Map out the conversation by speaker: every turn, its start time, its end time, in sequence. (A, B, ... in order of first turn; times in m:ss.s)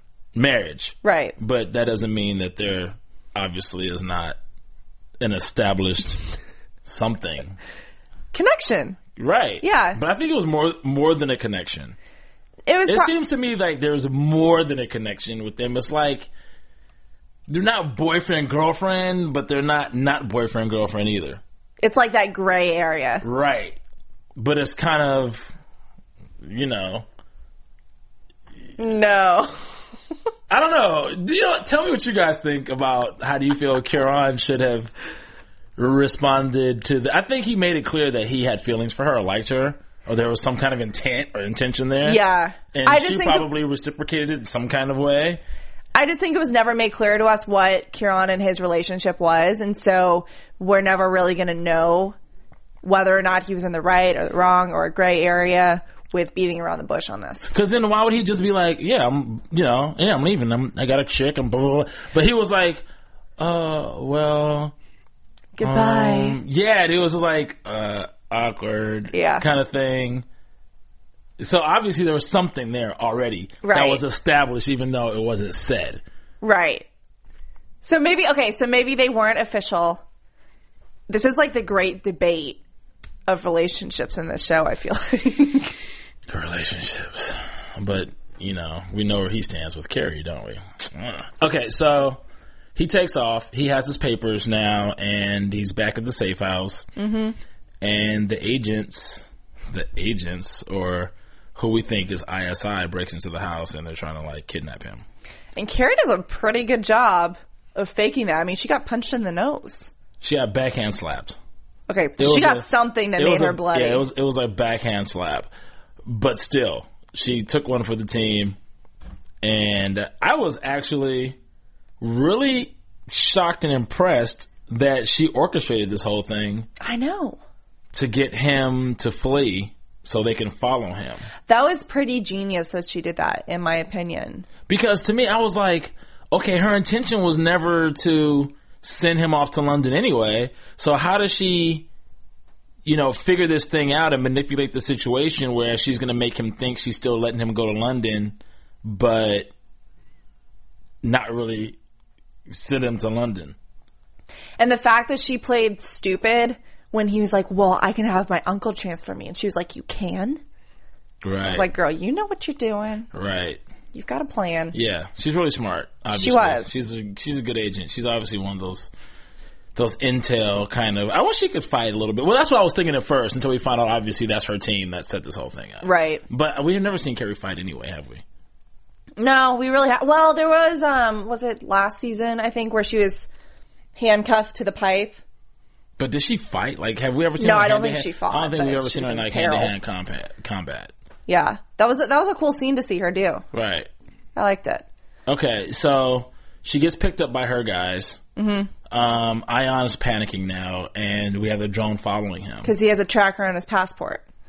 0:00.4-0:04.4 A
0:01.0-0:01.4 B
0:05.2-0:06.3 A
0:06.8-0:07.6 A
0:08.3-0:09.0 B
0:09.2-0:12.0 A
0:09.6-0:10.0 B
0:12.7-0:13.1 B
0:12.9-0:16.3 A
0:17.5-0:21.4 A
0:21.8-0:23.2 B
0:23.2-0:23.8 A
0:24.4-0:25.5 A
0:26.4-0:27.1 A
0:28.8-0:29.6 B
0:30.5-0:34.9 A
0:35.8-0:42.2 A
0:42.0-0:43.5 B
0:42.7-0:45.4 A
0:46.0-0:52.2 B
0:52.8-0:57.5 B
0:57.5-1:02.8 A
1:03.4-1:04.7 A
1:05.6-1:06.4 B
1:05.6-1:10.2 A
1:09.1-1:09.4 B
1:11.4-1:16.0 A
1:13.6-1:14.0 B
1:16.4-1:16.9 B
1:17.8-1:20.0 B
1:21.1-1:22.6 B
1:23.3-1:25.8 B
1:26.3-1:32.2 A
1:32.8-1:36.9 A
1:37.0-1:37.4 B
1:37.8-1:45.0 A
1:45.6-1:49.9 B
1:50.2-1:51.4 A
1:51.9-1:54.0 B
1:52.2-1:55.5 A
1:56.1-1:58.6 A
1:59.4-2:01.4 A
2:02.0-2:06.7 A
2:06.8-2:07.4 B
2:07.9-2:11.3 A
2:11.5-2:14.5 B
2:14.7-2:21.9 A
2:22.8-2:29.5 A
2:31.0-2:31.8 A
2:32.5-2:33.6 A
2:34.6-2:40.4 B
2:41.2-2:41.7 A
2:41.4-2:43.1 B
2:43.1-2:43.6 A
2:43.9-2:44.8 B
2:44.7-2:48.9 A
2:46.1-2:46.8 B
2:49.8-2:58.2 A
2:55.8-2:56.2 B
2:59.2-3:03.3 B
3:04.0-3:05.2 B
3:06.0-3:10.9 A
3:07.4-3:09.7 B
3:11.3-3:13.4 B
3:13.5-3:13.9 A
3:14.4-3:14.9 B
3:15.3-3:18.2 A
3:18.4-3:18.7 B
3:18.9-3:22.7 A
3:22.6-3:24.2 B